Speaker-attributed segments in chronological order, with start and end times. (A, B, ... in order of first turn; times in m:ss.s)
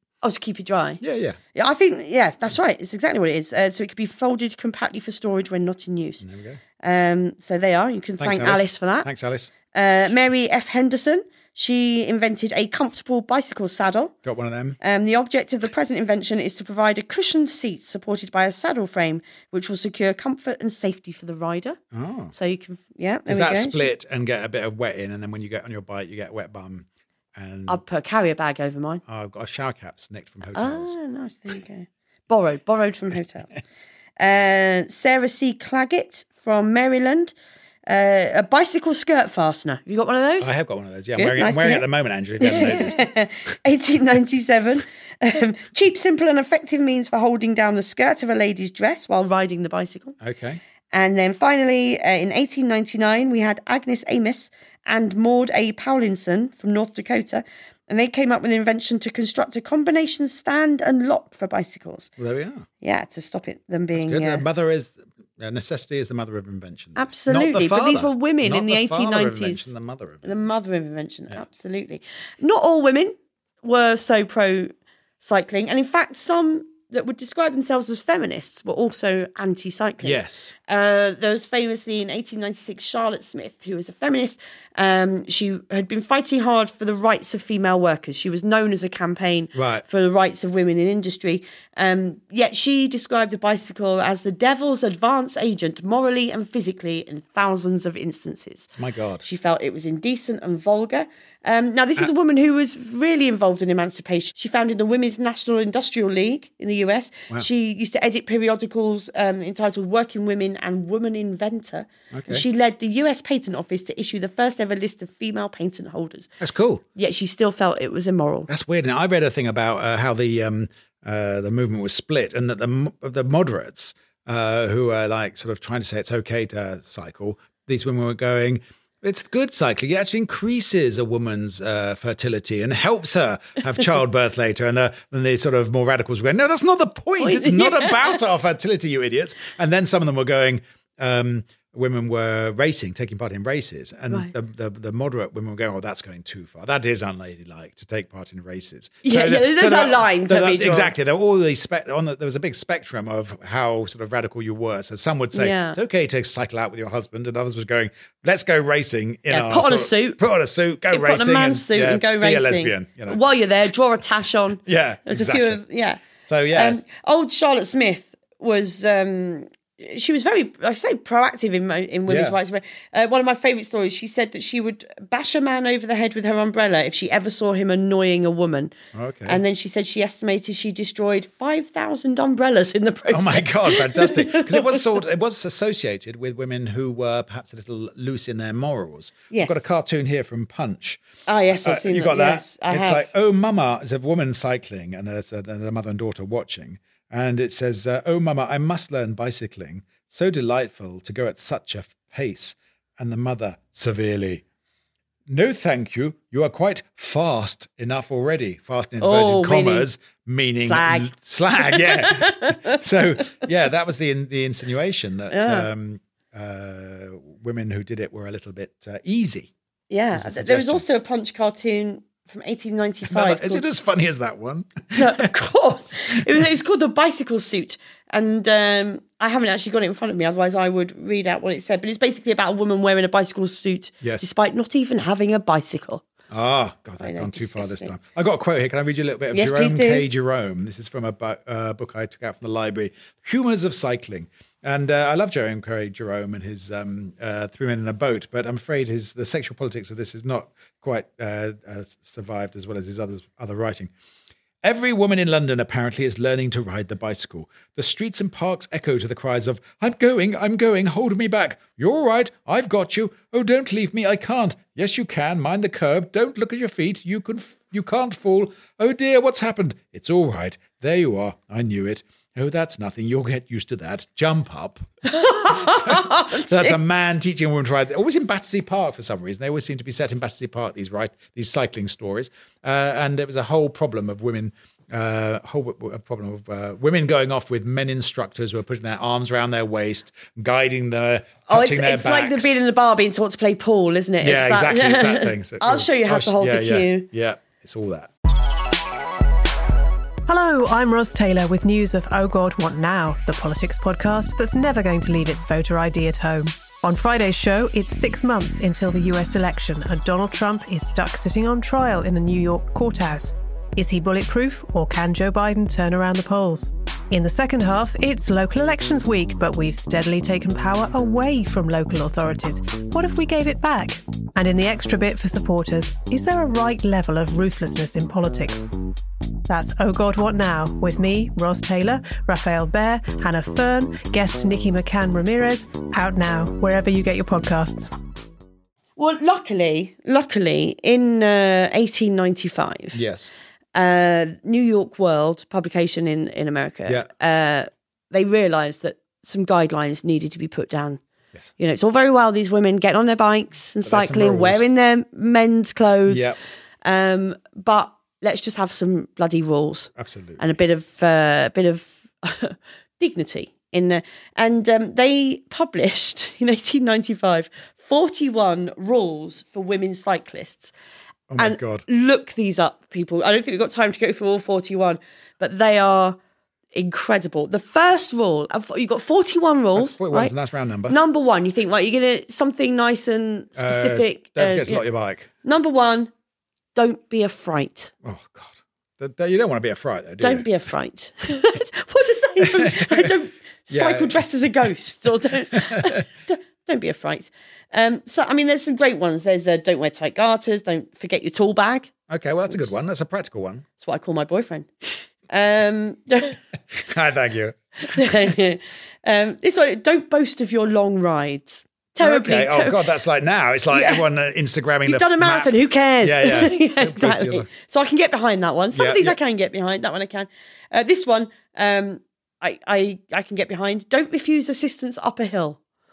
0:00.2-0:01.0 A
0:01.0-0:01.4 B
0:01.6-0:06.2 A
0:06.2-0:06.6 B
0:06.8-0:09.1 A
0:08.2-0:09.5 B
0:09.7-0:14.1 A
0:14.2-0:14.8 B
0:14.8-0:21.8 A
0:21.9-0:22.3 B
0:22.3-0:23.9 A
0:23.3-0:27.8 B
0:27.7-0:29.0 A
0:29.1-0:31.0 B
0:30.6-0:33.5 A
0:34.2-0:37.3 A
0:37.9-0:40.5 A
0:40.4-0:43.1 B
0:41.2-0:41.8 A
0:42.4-0:50.2 A
0:50.2-0:50.6 B
0:50.9-1:02.1 A
1:02.2-1:02.7 B
1:02.8-1:04.4 A
1:03.9-1:10.4 B
1:07.0-1:09.7 A
1:10.2-1:38.7 A
1:20.0-1:20.6 B
1:29.5-1:29.8 B
1:38.8-1:39.2 B
1:39.2-1:56.3 A
1:52.1-1:52.4 B
1:56.4-1:56.8 B
1:57.0-1:58.5 A
1:58.5-2:43.2 B
2:17.2-2:18.2 A
2:29.0-2:30.9 A
2:35.3-2:35.8 A
2:39.3-2:40.2 A
2:40.9-2:46.0 A
2:44.6-2:45.6 B
2:46.3-2:46.8 B
2:46.5-2:58.7 A
2:52.1-2:52.4 B
2:58.9-2:59.4 B
2:59.3-3:04.8 A
3:03.1-3:24.4 B
3:09.3-3:09.6 A
3:11.3-3:13.1 A
3:25.3-3:39.5 B
3:29.0-3:29.9 A
3:30.6-3:32.8 A
3:35.3-3:35.7 A
3:39.9-3:43.7 A
3:40.1-3:40.8 B
3:43.1-3:45.3 B
3:44.9-3:56.0 A
3:54.0-3:54.3 B
3:56.3-4:13.9 B
3:57.0-3:57.9 A
3:59.3-4:00.0 A
4:14.6-4:34.9 B
4:35.1-4:36.8 A
4:35.4-4:52.6 B
4:51.5-4:57.1 A
4:54.2-4:58.1 B
5:00.3-5:28.7 C
5:29.5-5:37.9 C
5:39.0-5:43.0 A
5:42.9-5:43.3 B
5:43.8-5:51.0 A
5:51.6-5:56.3 A
5:53.8-5:54.6 B
5:56.1-5:56.4 B
5:56.8-6:10.7 A
6:00.0-6:00.4 B
6:11.3-6:11.8 B
6:11.4-6:16.2 A
6:16.7-6:20.3 A
6:19.8-6:21.0 B
6:20.9-6:24.8 A
6:23.6-6:25.3 B
6:25.4-6:26.1 A
6:26.8-6:27.9 A
6:28.0-6:30.5 B
6:30.2-6:41.9 A
6:32.4-6:33.1 B
6:33.7-6:34.2 B
6:35.5-6:36.0 B
6:42.1-6:43.7 B
6:43.8-6:46.4 A
6:46.7-6:48.3 B
6:47.8-6:52.8 A
6:52.0-6:57.5 B
6:53.7-6:54.0 A
6:54.9-7:05.6 A
6:58.7-6:59.2 B